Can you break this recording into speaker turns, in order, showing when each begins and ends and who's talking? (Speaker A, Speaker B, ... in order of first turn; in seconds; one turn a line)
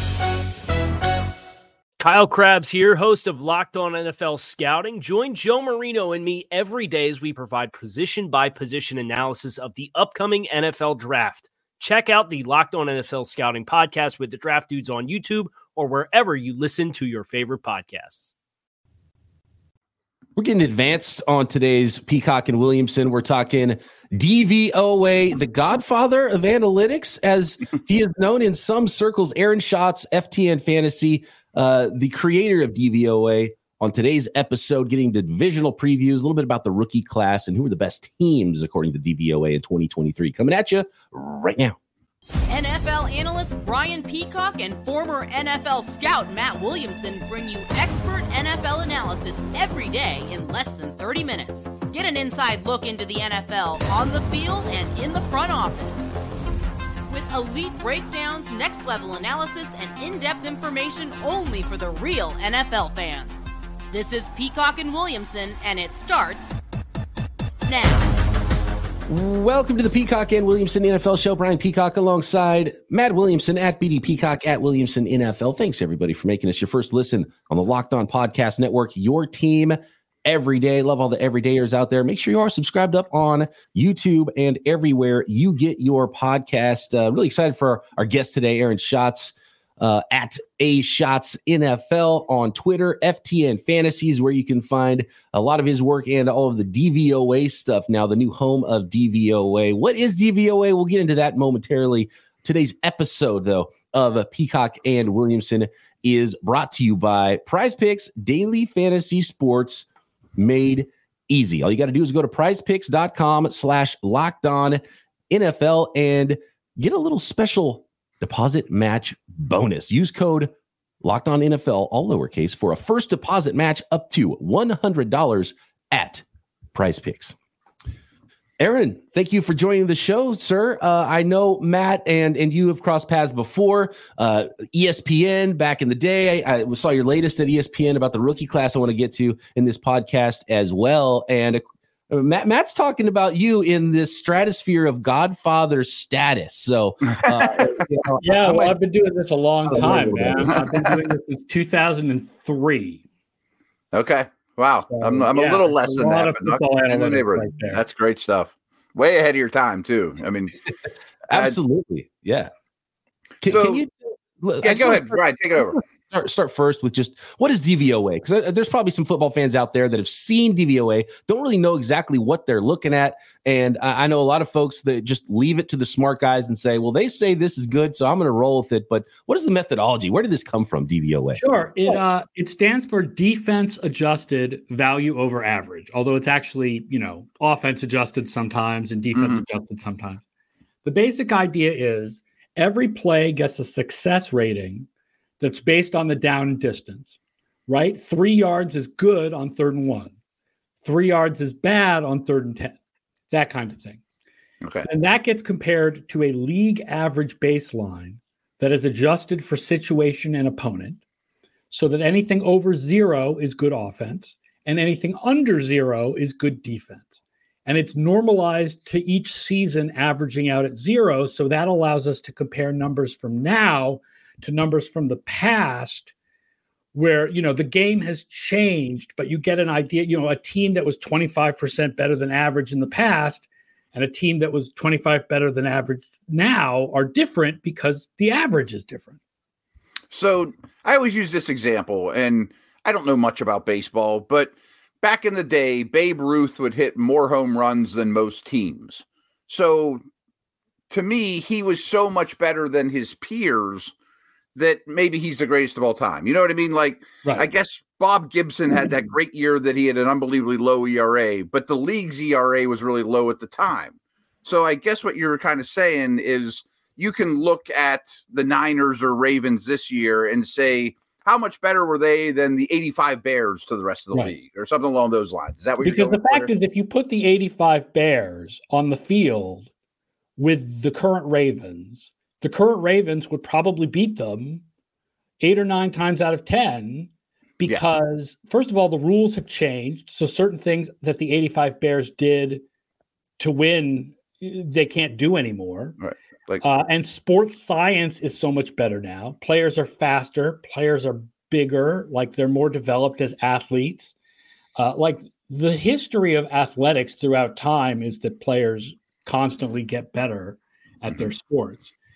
Speaker A: 2.0-18.3
Speaker B: 20.4-41.8
Speaker C: 42.5-56.1
Speaker C: 57.1-66.5
Speaker C: 67.6-68.1
Speaker B: 69.1-109.8
Speaker B: 110.4-120.5
Speaker B: 121.0-127.3
Speaker B: 128.6-148.8
Speaker D: 147.1-147.5
Speaker E: 148.2-153.0
Speaker B: 149.7-150.7
Speaker D: 153.9-160.6
Speaker E: 154.9-157.8
Speaker B: 161.3-162.5
Speaker D: 161.3-161.6
Speaker B: 163.4-181.4
Speaker D: 163.4-163.8
Speaker D: 164.6-165.8
Speaker E: 181.3-190.2
Speaker D: 189.1-189.4
Speaker E: 190.8-194.9
Speaker E: 195.4-197.1
Speaker E: 197.7-200.1
Speaker E: 200.8-202.8
Speaker E: 203.3-204.0
Speaker D: 204.6-204.9
Speaker E: 204.8-211.0
Speaker E: 211.7-217.1
Speaker E: 217.7-226.1
Speaker E: 226.9-239.2
Speaker D: 240.1-250.0
Speaker D: 250.9-253.9
Speaker D: 254.5-276.5
Speaker E: 275.8-279.7
Speaker E: 280.4-284.6
Speaker E: 285.4-292.6
Speaker E: 293.4-296.0
Speaker D: 296.0-296.6
Speaker E: 296.6-304.1
Speaker E: 304.8-311.9